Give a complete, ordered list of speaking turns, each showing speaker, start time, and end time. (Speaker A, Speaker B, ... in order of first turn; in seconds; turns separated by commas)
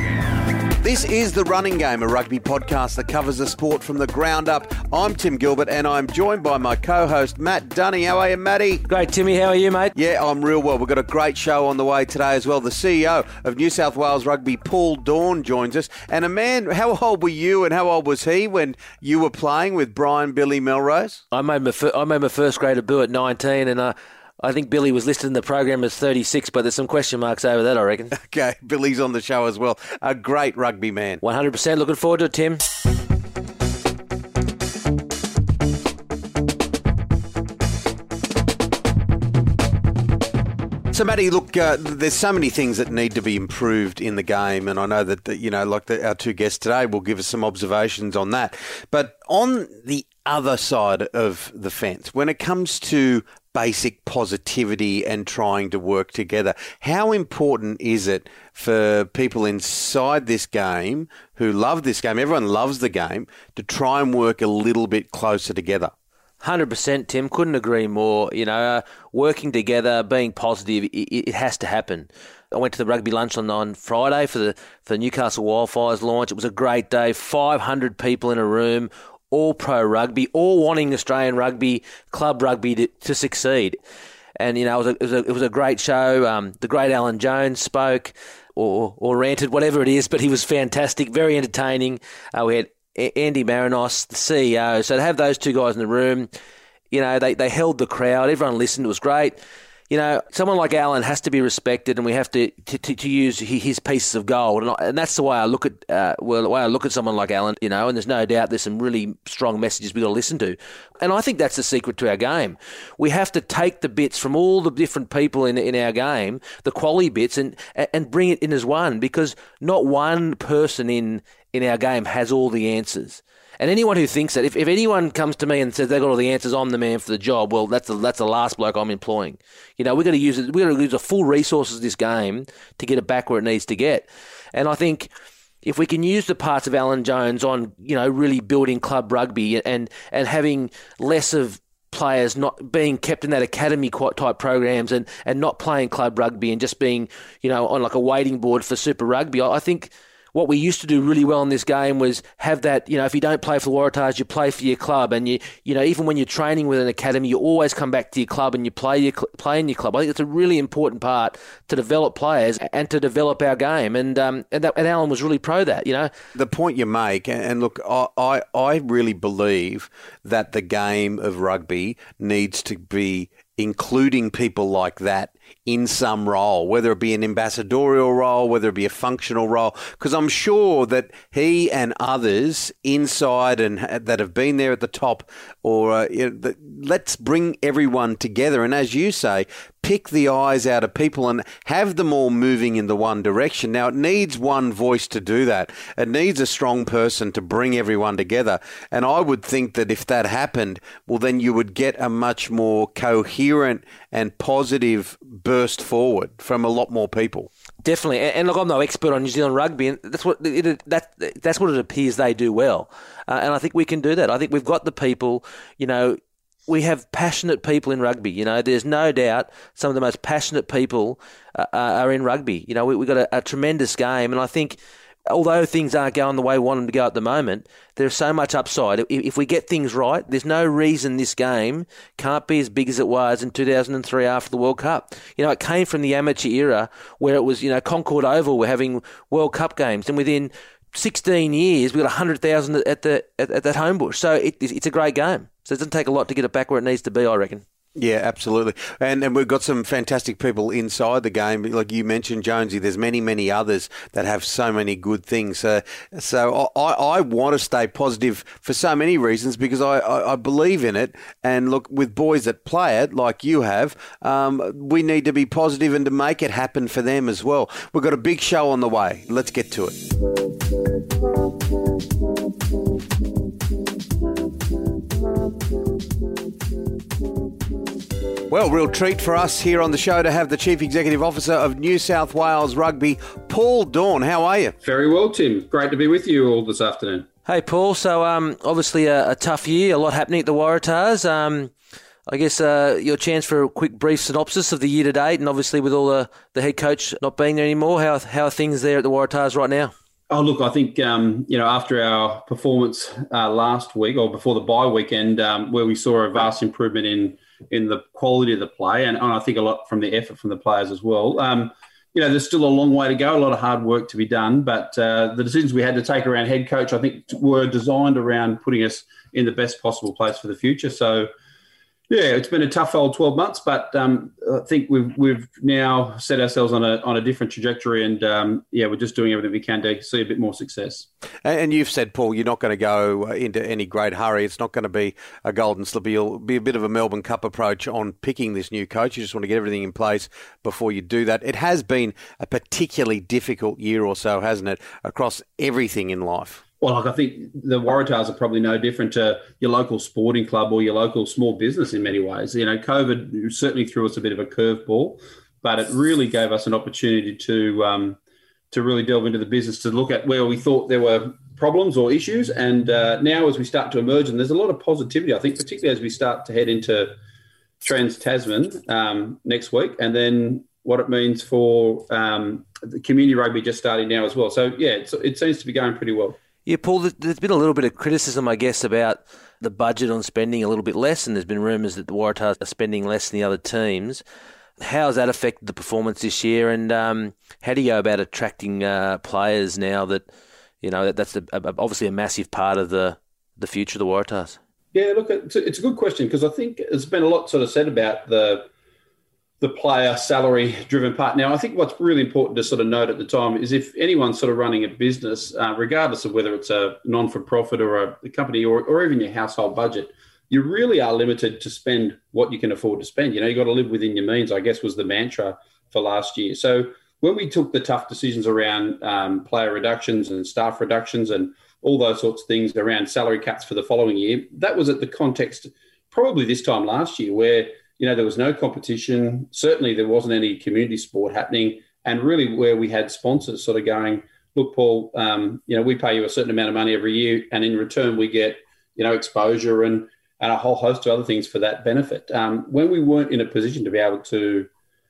Speaker A: 0.8-8.8, Speaker B: 8.9-9.9, Speaker A: 9.9-21.2, Speaker B: 21.3-28.1, Speaker A: 28.1-31.2, Speaker B: 31.2-32.6, Speaker A: 40.9-65.9, Speaker B: 66.4-83.8, Speaker B: 84.4-96.3, Speaker B: 96.9-99.4, Speaker B: 99.9-135.1, Speaker B: 135.6-166.1, Speaker A: 166.3-207.5, Speaker B: 207.8-247.6, Speaker A: 247.9-270.0, Speaker A: 278.5-284.7, Speaker C: 284.8-287.3, Speaker B: 287.5-291.7, Speaker B: 292.3-299.9, Speaker C: 300.3-321.3, Speaker C: 322.1-331.1, Speaker A: 331.4-346.6, Speaker C: 346.8-358.2, Speaker C: 358.7-367.1, Speaker C: 367.8-376.4, Speaker B: 376.6-384.2, Speaker B: 384.8-390.2, Speaker B: 390.8-394.6, Speaker C: 394.9-398.7, Speaker C: 399.6-444.7